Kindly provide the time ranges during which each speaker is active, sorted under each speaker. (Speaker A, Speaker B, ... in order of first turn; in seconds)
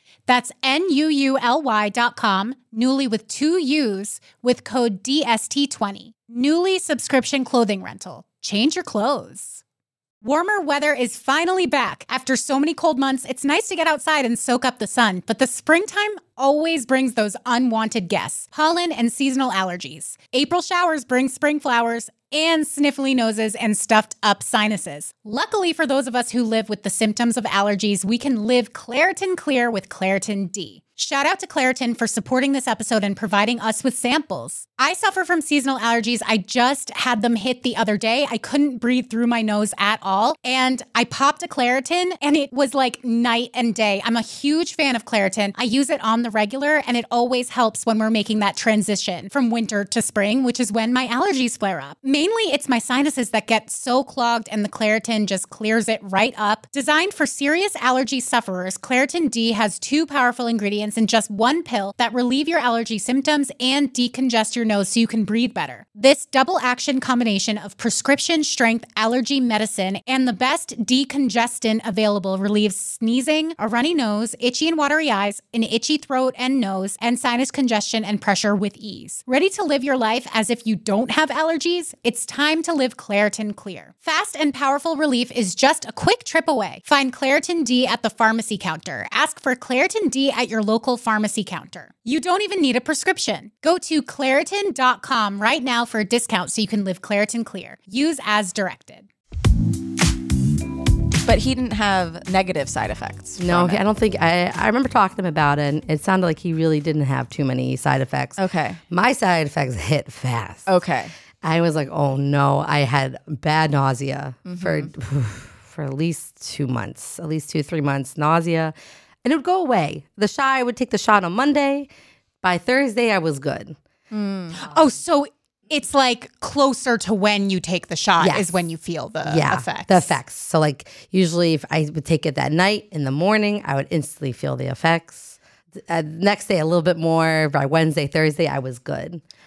Speaker A: 0.3-9.6, 10.2-99.1, 124.6-130.1
Speaker B: 101.2-103.8, 108.4-108.8, 110.7-111.1, 114.5-114.9, 124.1-124.6
Speaker C: 103.4-110.7, 111.4-121.9, 122.4-123.8, 128.2-128.5, 129.2-139.2